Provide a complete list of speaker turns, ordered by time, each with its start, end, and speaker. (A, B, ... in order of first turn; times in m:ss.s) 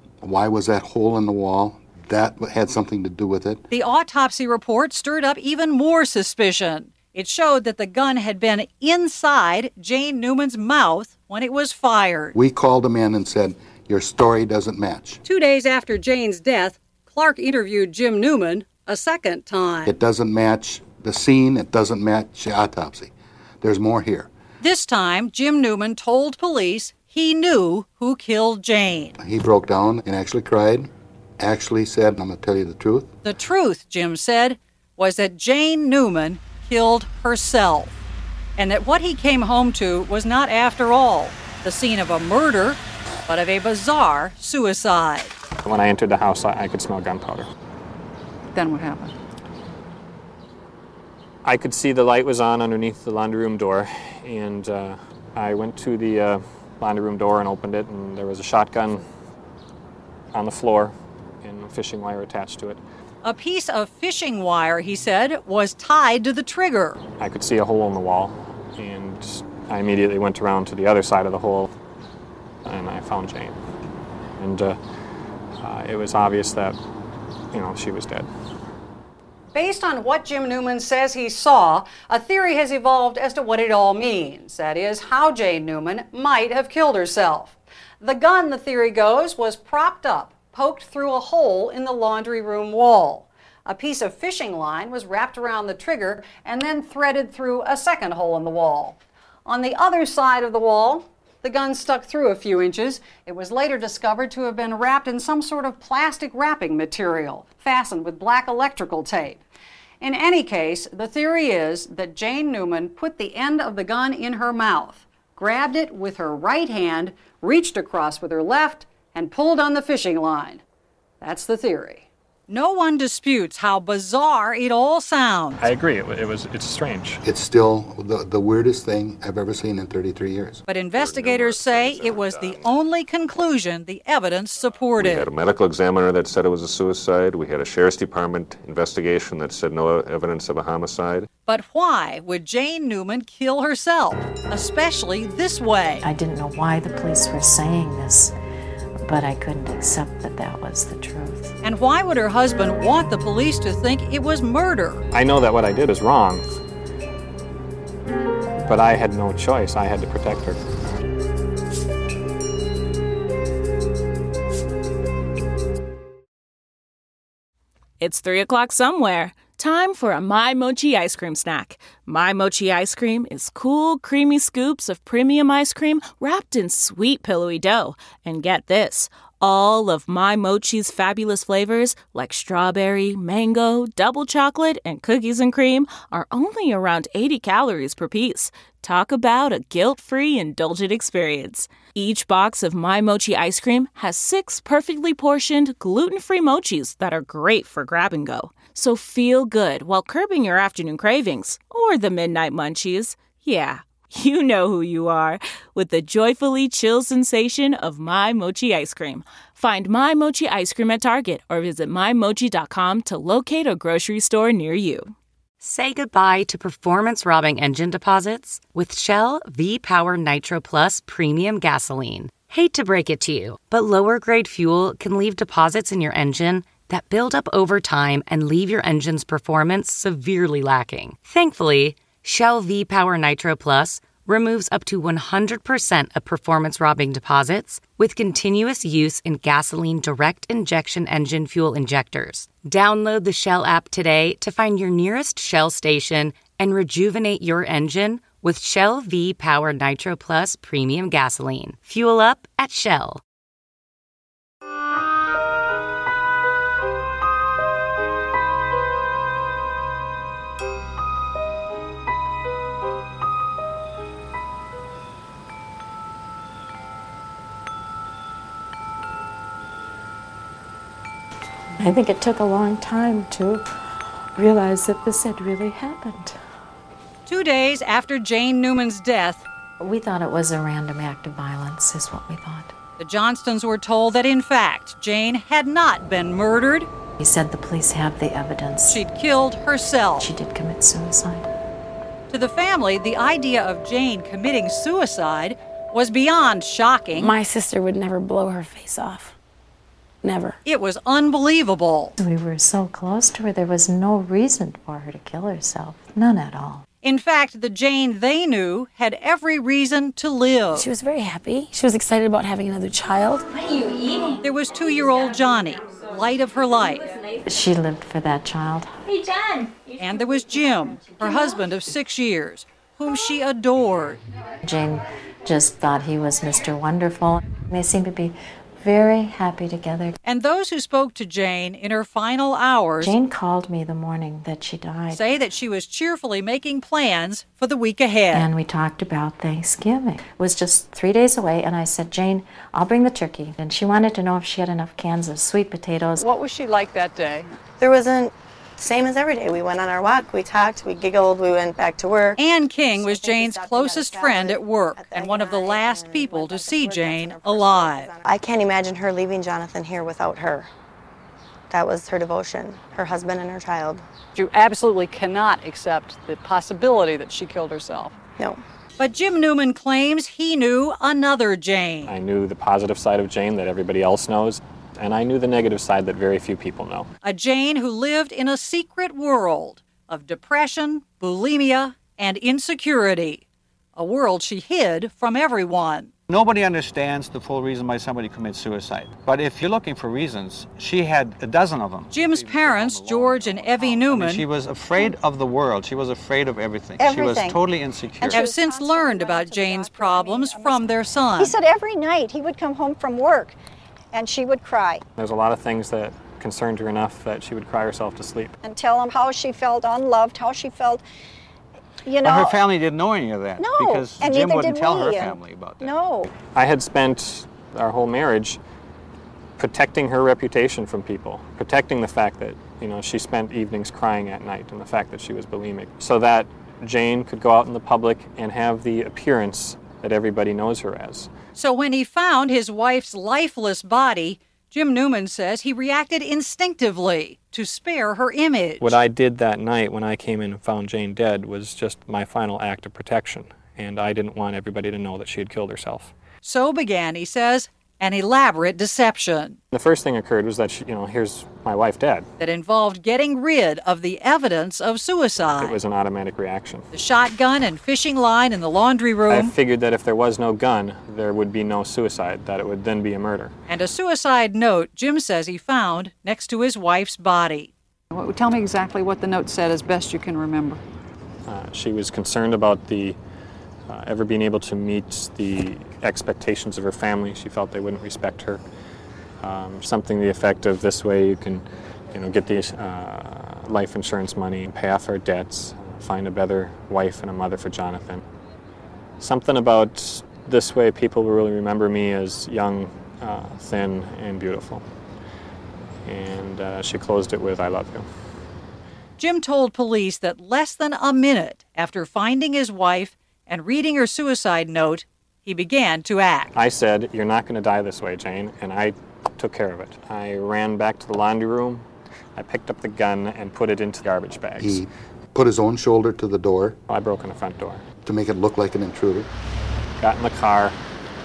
0:00.2-0:03.6 A
0:03.7-0:12.3 B
0:12.3-0:15.2 A
0:15.2-0:19.9 B
0:19.8-0:24.3 A
0:24.6-0:29.2 B
0:29.2-0:33.1 A
0:33.2-0:38.0 B
0:38.6-0:45.3 B
0:45.6-0:47.5 C
0:48.5-0:49.1 D
0:51.4-0:59.0 C
1:00.3-1:02.8 C
1:03.2-1:07.0 B
1:07.2-1:11.7 C
1:12.6-1:13.6 C
1:14.4-1:14.8 C
1:15.6-1:16.8 C
1:17.5-1:18.3 C
1:19.5-1:49.4 B
1:50.0-2:00.6 B
2:01.2-2:05.6 B
2:05.6-2:07.2 C
2:07.2-2:10.6 A
2:10.7-2:15.3 B
2:10.9-2:12.7 E
2:14.9-2:21.3 E
2:21.4-2:26.0 B
2:26.0-2:28.3 F
2:29.0-2:31.6 F
2:31.6-2:35.0 B
2:35.1-2:36.4 C
2:38.6-2:40.6 C
2:48.0-3:35.1 G
3:35.6-4:13.2 H
4:31.8-4:33.7 F
4:34.4-4:36.4 F
4:37.2-4:39.4 B
4:39.8-4:42.7 F
4:43.0-4:46.9 B
4:47.2-4:49.0 F
4:48.9-4:50.3 B
4:50.2-4:51.5 F
4:52.3-4:57.3 B
4:57.1-4:59.3 I
5:00.2-5:00.6 I
5:00.6-5:02.1 B
5:02.2-5:06.8 F
5:07.0-5:10.9 B
5:10.7-5:13.6 I
5:14.4-5:17.1 B
5:17.4-5:19.1 F
5:20.0-5:24.2 B
5:24.6-5:30.2 F
5:30.2-5:33.1 B
5:33.0-5:35.2 F
5:35.1-5:38.5 B
5:38.3-5:46.2 F
5:46.2-5:47.5 D
5:47.8-5:52.4 J
5:52.4-5:58.1 B
5:52.9-6:00.7 J
6:01.7-6:04.0 J
6:04.3-6:08.1 D
6:09.0-6:12.1 B
6:12.0-6:17.1 C
6:17.2-6:23.4 B
6:24.0-6:26.1 B
6:26.3-6:38.4 K
6:32.1-6:34.5 B
6:38.3-6:41.6 B
6:38.4-6:38.9 L
6:39.2-6:40.9 D
6:41.4-6:43.5 L
6:44.1-6:45.0 L
6:45.2-6:48.5 C
6:48.6-6:51.0 L
6:52.2-6:55.9 K
6:54.2-6:55.3 L
6:55.9-6:56.2 L
6:56.5-6:58.6 C
6:59.6-7:11.3 C
7:11.5-7:19.0 B
7:18.8-7:26.1 C
7:26.4-7:29.6 B
7:29.7-7:32.3 C
7:32.4-7:35.8 B
7:35.4-7:36.8 C
7:36.9-7:39.5 B
7:39.3-7:43.5 C
7:43.7-7:47.7 B
7:48.1-7:50.8 D
7:51.4-7:53.2 C
7:53.9-7:58.6 C
7:59.4-8:08.2 C
8:09.2-8:14.8 C
8:16.0-8:18.0 C
8:19.2-8:26.5 B
8:26.5-8:34.8 C
8:34.6-8:36.8 A
8:36.9-8:37.8 C
8:38.0-8:39.3 A
8:40.0-8:40.8 C